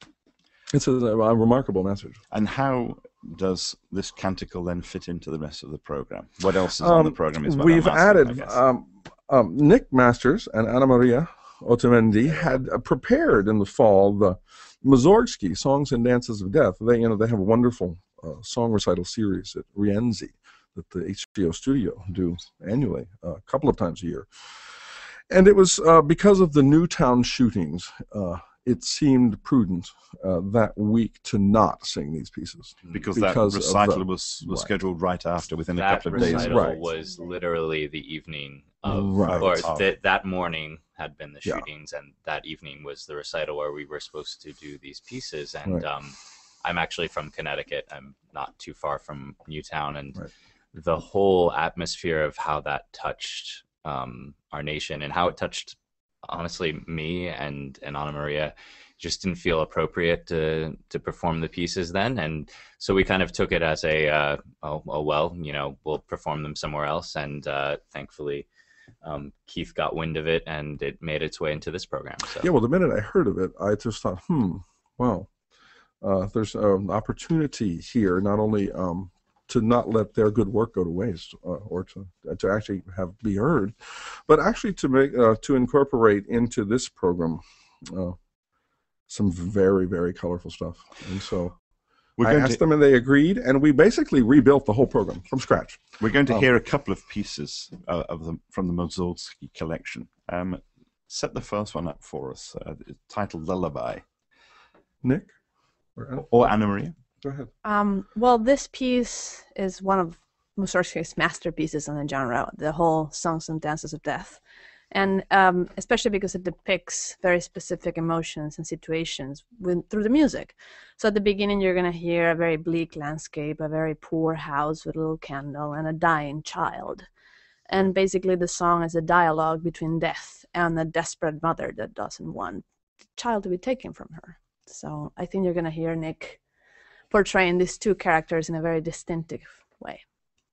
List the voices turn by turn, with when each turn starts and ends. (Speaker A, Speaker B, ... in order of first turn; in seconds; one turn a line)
Speaker A: 0.7-2.2
Speaker B: 2.3-8.6
Speaker A: 6.8-34.7
Speaker B: 32.9-36.8
Speaker C: 35.8-50.2
Speaker A: 36.1-36.9
Speaker A: 38.9-39.7
Speaker B: 39.3-39.9
Speaker C: 50.7-68.5
Speaker C: 69.0-72.5
Speaker A: 72.4-75.3
Speaker A: 76.0-88.2
Speaker A: 89.1-91.6
Speaker B: 92.2-92.6
Speaker A: 92.2-96.5
Speaker B: 96.0-104.0
Speaker A: 105.0-105.3
Speaker A: 106.0-106.3
Speaker B: 106.2-106.9
Speaker A: 107.2-107.5
Speaker D: 107.6-127.1
Speaker D: 127.7-132.6
Speaker D: 133.2-136.4
Speaker D: 137.1-140.0